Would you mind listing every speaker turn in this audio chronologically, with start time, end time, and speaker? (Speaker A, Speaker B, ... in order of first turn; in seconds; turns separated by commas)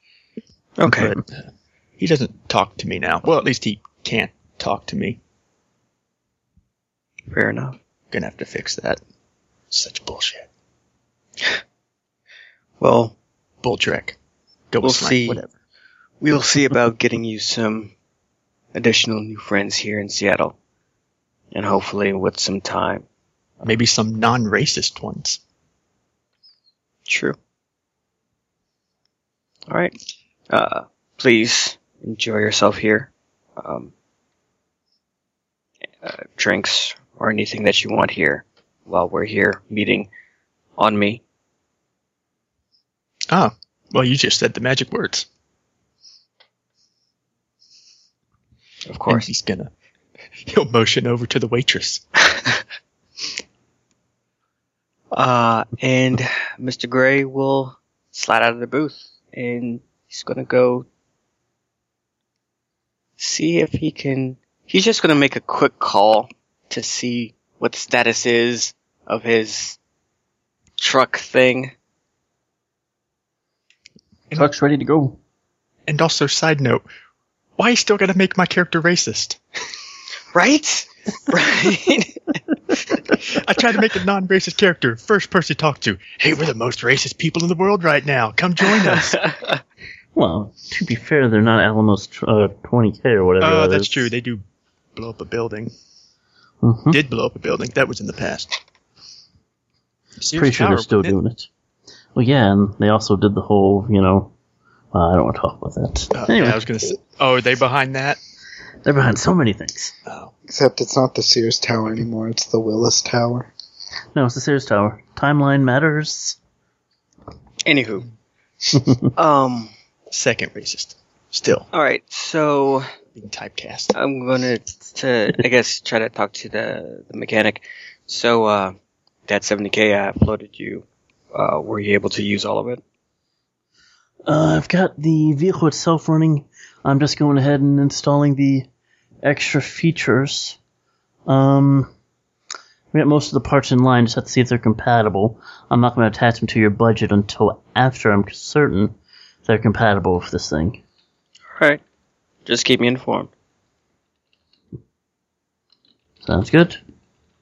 Speaker A: 0.8-1.2, Speaker B: 0.8-1.2, Speaker B: 2.0-5.2, Speaker A: 7.3-7.8, Speaker B: 8.1-9.0, Speaker B: 9.7-10.5, Speaker A: 12.8-13.2, Speaker B: 13.6-14.2, Speaker B: 14.7-15.5, Speaker A: 14.8-15.4, Speaker A: 16.2-17.9, Speaker A: 18.7-20.6, Speaker A: 21.5-23.1, Speaker B: 23.6-25.4, Speaker A: 27.1-27.4, Speaker A: 29.7-29.9, Speaker A: 30.5-33.9, Speaker A: 36.0-40.1, Speaker A: 40.8-41.2, Speaker B: 43.3-45.3, Speaker A: 48.9-49.3, Speaker B: 49.1-49.7, Speaker B: 50.4-52.0, Speaker A: 52.3-52.6, Speaker A: 55.1-60.9, Speaker A: 63.2-69.8, Speaker A: 70.8-71.7, Speaker C: 74.3-75.2, Speaker B: 75.9-76.8, Speaker B: 77.6-79.4, Speaker A: 80.3-82.4, Speaker B: 83.3-89.2, Speaker A: 88.9-89.6, Speaker C: 90.2-94.1, Speaker B: 93.4-94.4, Speaker B: 95.0-95.7, Speaker C: 96.6-97.0, Speaker B: 96.9-98.5, Speaker B: 100.2-101.2, Speaker C: 100.3-101.5, Speaker C: 102.2-104.3, Speaker C: 104.9-106.6, Speaker B: 106.1-108.2, Speaker C: 108.8-109.9, Speaker B: 110.1-110.3, Speaker D: 110.5-113.5, Speaker C: 114.2-116.4, Speaker A: 117.7-118.1, Speaker A: 119.2-119.7, Speaker B: 120.1-121.7, Speaker A: 121.7-122.9, Speaker B: 123.2-123.9, Speaker A: 123.9-128.8, Speaker A: 129.3-132.8, Speaker C: 134.3-138.7, Speaker C: 139.2-140.6, Speaker C: 141.3-141.9, Speaker C: 142.9-148.9, Speaker C: 149.5-150.8, Speaker A: 151.5-151.8, Speaker A: 152.5-153.3, Speaker C: 156.2-156.8